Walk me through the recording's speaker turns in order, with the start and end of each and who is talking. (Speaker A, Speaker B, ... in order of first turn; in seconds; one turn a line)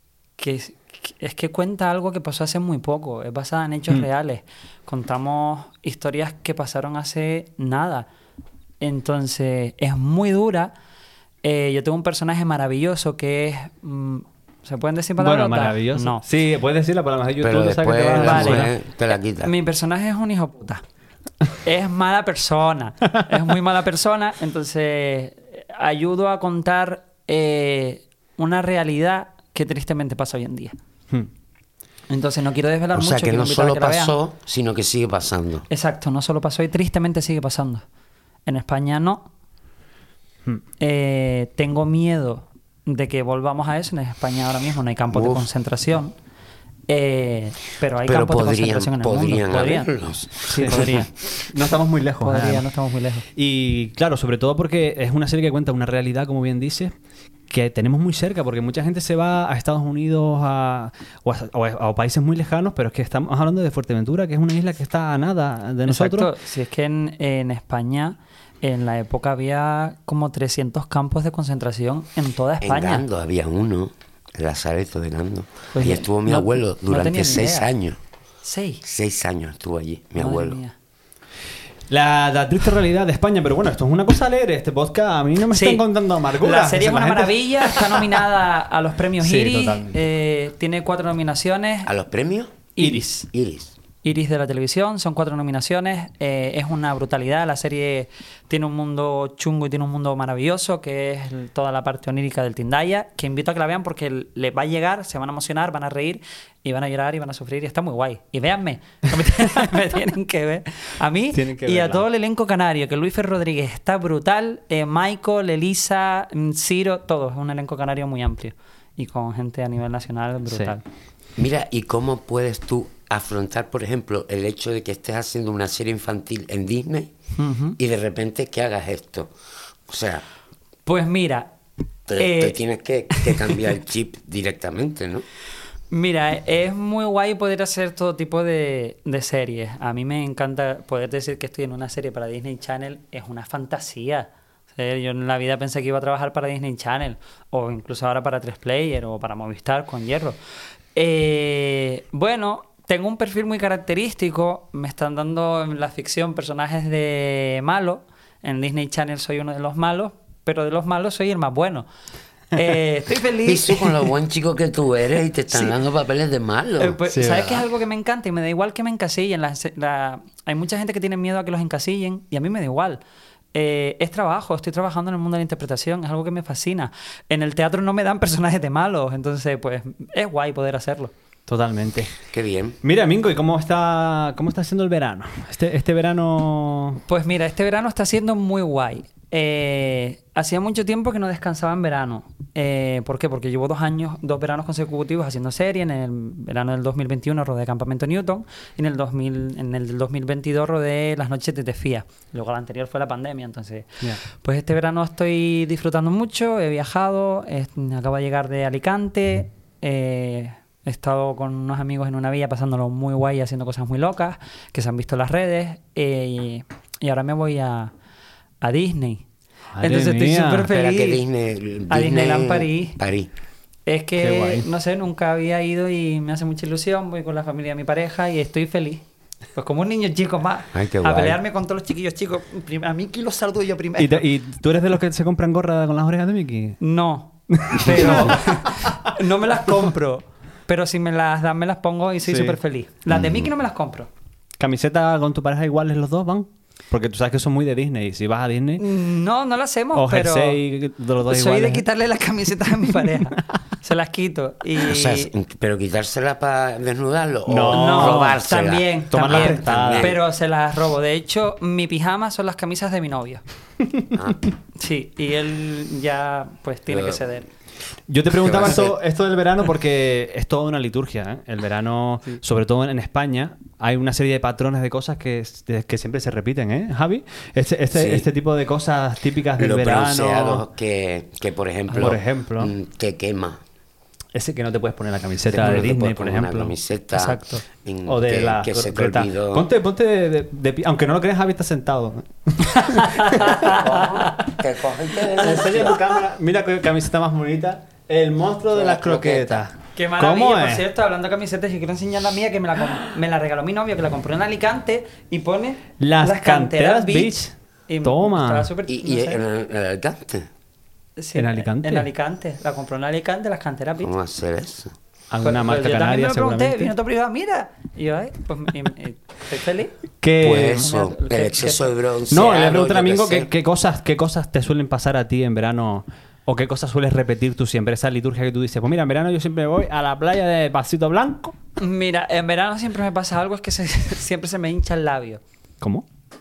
Speaker A: 0.4-8.1
Speaker A: 8.8-10.7
Speaker A: 11.4-16.2
Speaker B: 15.2-18.7
Speaker C: 17.4-19.5
Speaker A: 18.1-18.7
Speaker A: 19.4-20.8
Speaker A: 21.6-30.8
Speaker A: 32.1-34.1
Speaker C: 32.9-35.6
Speaker A: 35.7-37.8
Speaker A: 38.5-39.3
Speaker A: 40.8-46.1
Speaker C: 45.1-45.5
Speaker A: 46.9-49.9
Speaker C: 48.0-51.0
Speaker A: 50.4-51.1
Speaker B: 50.5-52.7
Speaker A: 52.2-53.2
Speaker B: 53.3-56.9
Speaker B: 57.5-66.3
Speaker A: 65.8-73.0
Speaker C: 72.6-78.0
Speaker A: 75.7-77.7
Speaker A: 78.4-78.8
Speaker C: 78.8-80.6
Speaker A: 80.2-80.8
Speaker B: 81.9-88.1
Speaker A: 85.5-85.8
Speaker A: 86.4-91.9
Speaker B: 89.2-90.0
Speaker C: 91.8-92.7
Speaker A: 92.8-93.3
Speaker B: 92.8-93.0
Speaker C: 93.3-93.7
Speaker A: 94.0-120.8
Speaker B: 111.3-112.0
Speaker C: 121.4-127.1
Speaker A: 127.4-127.8
Speaker C: 127.8-129.3
Speaker C: 129.9-130.2
Speaker A: 130.8-131.5
Speaker C: 132.1-135.2
Speaker A: 132.1-132.6
Speaker A: 133.1-133.5
Speaker A: 135.9-150.4
Speaker A: 150.9-161.9
Speaker A: 162.5-164.0
Speaker C: 163.4-167.0
Speaker A: 166.8-173.0
Speaker B: 167.1-167.6
Speaker A: 173.5-181.1
Speaker B: 181.5-182.1
Speaker C: 182.3-182.8
Speaker B: 182.8-187.0
Speaker A: 187.1-217.9
Speaker A: 218.6-219.2
Speaker B: 219.7-220.7
Speaker A: 219.8-221.2
Speaker C: 220.7-223.3
Speaker A: 221.9-223.0
Speaker A: 223.9-229.0
Speaker B: 224.2-224.7
Speaker A: 229.5-234.2
Speaker C: 230.7-231.4
Speaker B: 234.0-236.8
Speaker A: 236.8-244.1
Speaker B: 237.5-239.0
Speaker B: 242.2-242.6
Speaker C: 243.1-243.5
Speaker B: 244.6-248.8
Speaker A: 248.8-250.6
Speaker B: 249.9-251.8
Speaker A: 251.3-255.3
Speaker C: 254.8-260.2
Speaker B: 257.5-258.4
Speaker A: 257.7-263.4
Speaker B: 259.1-260.2
Speaker C: 264.1-264.5
Speaker A: 264.8-267.5
Speaker C: 266.9-267.2
Speaker B: 268.1-280.6
Speaker C: 268.3-269.0
Speaker C: 277.9-278.3
Speaker C: 279.6-283.6
Speaker B: 281.9-282.7
Speaker B: 284.3-286.7
Speaker C: 285.5-289.7
Speaker A: 287.1-287.6
Speaker B: 288.1-293.7
Speaker A: 292.7-294.5
Speaker C: 293.6-296.0
Speaker B: 295.4-300.9
Speaker C: 298.7-299.7
Speaker A: 299.9-309.4
Speaker B: 306.0-308.7
Speaker C: 308.9-310.5
Speaker A: 311.2-314.1
Speaker B: 311.4-312.1
Speaker C: 314.0-314.9
Speaker B: 315.3-316.9
Speaker A: 315.4-319.9
Speaker B: 320.2-320.9
Speaker C: 320.4-323.5
Speaker A: 320.7-321.9
Speaker B: 322.3-331.6
Speaker A: 331.8-335.4